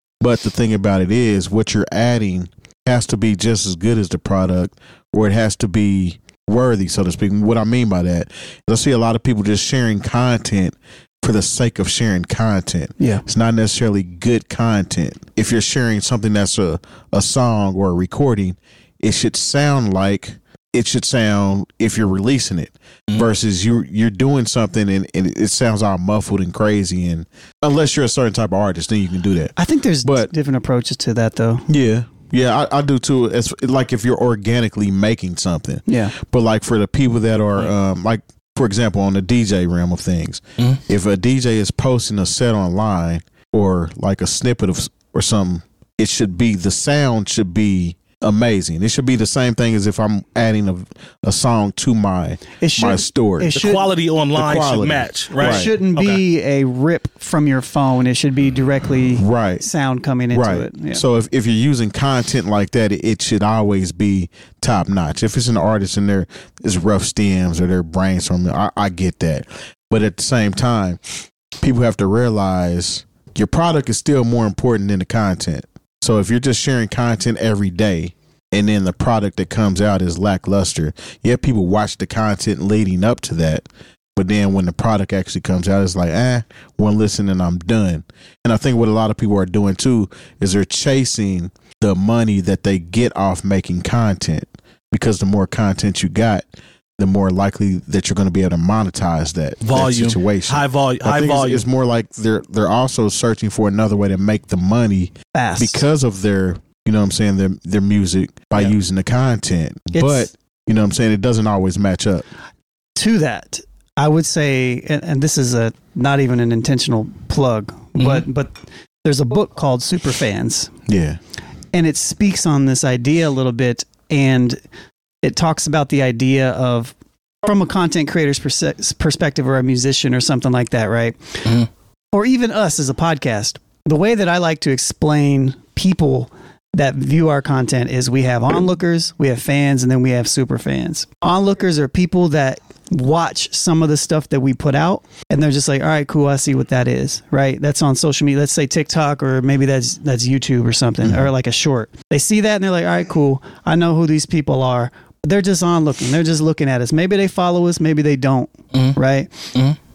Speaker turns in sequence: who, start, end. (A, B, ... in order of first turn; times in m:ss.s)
0:00.2-0:30.3 A
0:13.0-0:13.2 B
0:29.6-0:31.7 B
0:31.7-0:53.5 A
0:35.9-0:36.2 B
0:52.6-0:53.9 B
0:53.5-0:56.2 C
0:54.3-0:55.7 A
0:55.4-1:01.0 B
0:59.2-0:59.7 A
1:00.3-1:11.0 A
1:11.6-1:23.6 A
1:24.2-1:36.5 A
1:37.0-1:52.3 A
1:39.6-1:41.6 C
1:45.3-1:45.8 B
1:49.9-1:50.3 B
1:53.0-2:00.7 B
1:58.0-1:58.2 C
2:00.9-2:01.2 A
2:01.7-2:04.6 B
2:05.2-2:11.6 B
2:12.1-2:39.5 B
2:38.7-2:39.0 C